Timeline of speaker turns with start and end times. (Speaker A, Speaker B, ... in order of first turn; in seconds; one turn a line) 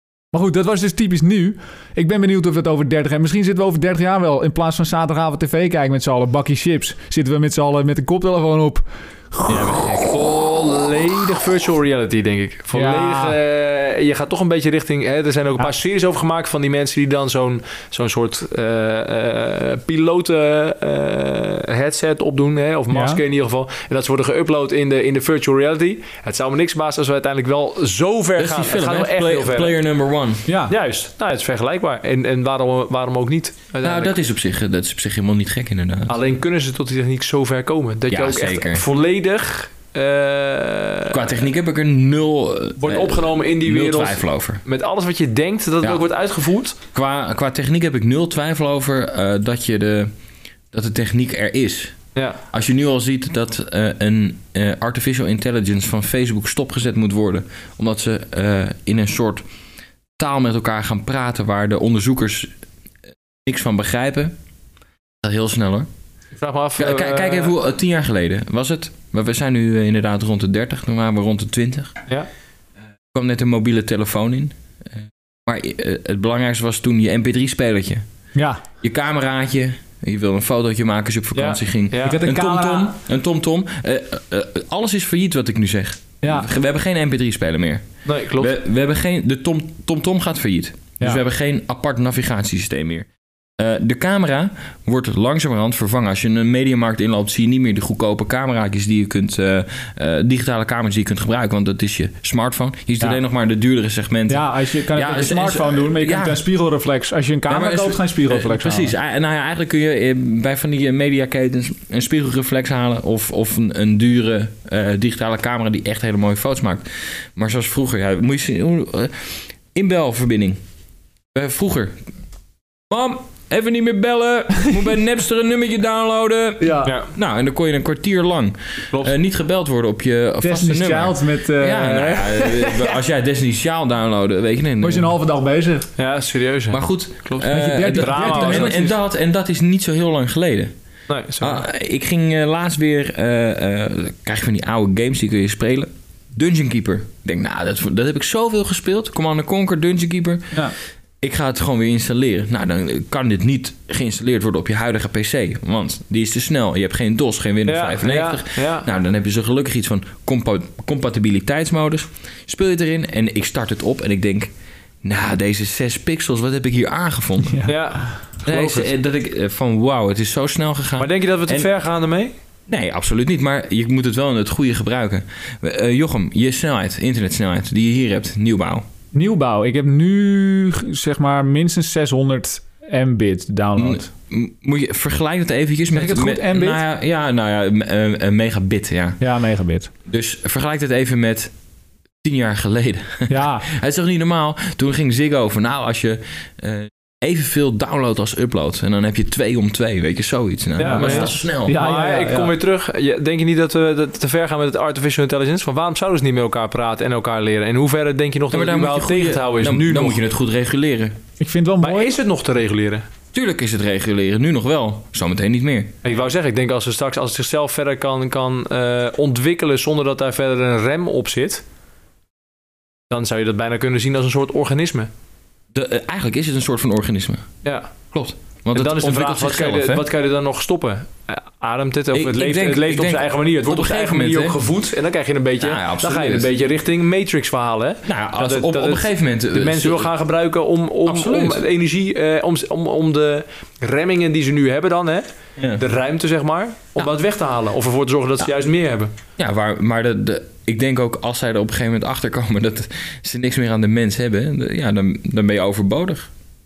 Speaker A: 0.3-9.8
Speaker B: 9.5-10.0
Speaker C: 9.8-29.8
Speaker A: 12.7-13.4
Speaker A: 22.9-23.2
Speaker B: 28.4-30.5
Speaker A: 30.4-30.7
Speaker C: 30.7-34.1
Speaker B: 33.8-36.2
Speaker C: 36.1-41.4
Speaker B: 38.1-38.8
Speaker B: 41.1-44.6
Speaker C: 42.8-46.8
Speaker B: 46.9-50.1
Speaker B: 50.7-52.0
Speaker C: 52.1-52.4
Speaker B: 52.5-59.4
Speaker B: 60.2-62.5
Speaker B: 63.5-64.3
Speaker B: 65.2-65.9
Speaker C: 66.4-67.5
Speaker B: 66.8-71.9
Speaker B: 73.1-78.0
Speaker A: 78.3-78.6
Speaker B: 78.8-93.1
Speaker C: 81.3-82.2
Speaker A: 82.0-83.0
Speaker A: 86.2-86.5
Speaker C: 88.1-88.5
Speaker B: 93.6-106.4
Speaker A: 104.3-108.9
Speaker B: 107.5-120.6
Speaker B: 121.3-122.0
Speaker B: 122.9-135.1
Speaker A: 126.6-127.0
Speaker C: 126.8-127.1
Speaker A: 130.4-133.0
Speaker A: 134.8-135.9
Speaker C: 136.0-138.9
Speaker B: 136.7-140.7
Speaker A: 137.4-138.9
Speaker C: 141.1-141.6
Speaker B: 141.4-150.7
Speaker B: 151.2-164.5
Speaker C: 157.7-158.9
Speaker B: 165.0-167.7
Speaker A: 167.4-167.8
Speaker C: 167.7-168.9
Speaker B: 168.4-171.7
Speaker C: 171.0-172.3
Speaker B: 172.7-178.9
Speaker A: 179.1-184.1
Speaker B: 183.8-189.2
Speaker A: 185.9-186.8
Speaker A: 189.2-189.9
Speaker B: 190.1-191.5
Speaker B: 192.2-201.8
Speaker A: 193.3-193.7
Speaker C: 200.8-210.2
Speaker A: 200.8-202.5
Speaker B: 208.5-211.2
Speaker A: 211.4-212.2
Speaker C: 211.8-213.1
Speaker B: 213.3-215.9
Speaker C: 216.0-221.6
Speaker C: 223.1-225.1
Speaker B: 225.7-227.5
Speaker C: 227.6-227.9
Speaker B: 228.1-230.1
Speaker C: 228.7-249.1
Speaker B: 232.1-234.6
Speaker B: 235.6-236.5
Speaker B: 238.1-240.1
Speaker B: 241.1-241.6
Speaker B: 249.4-256.3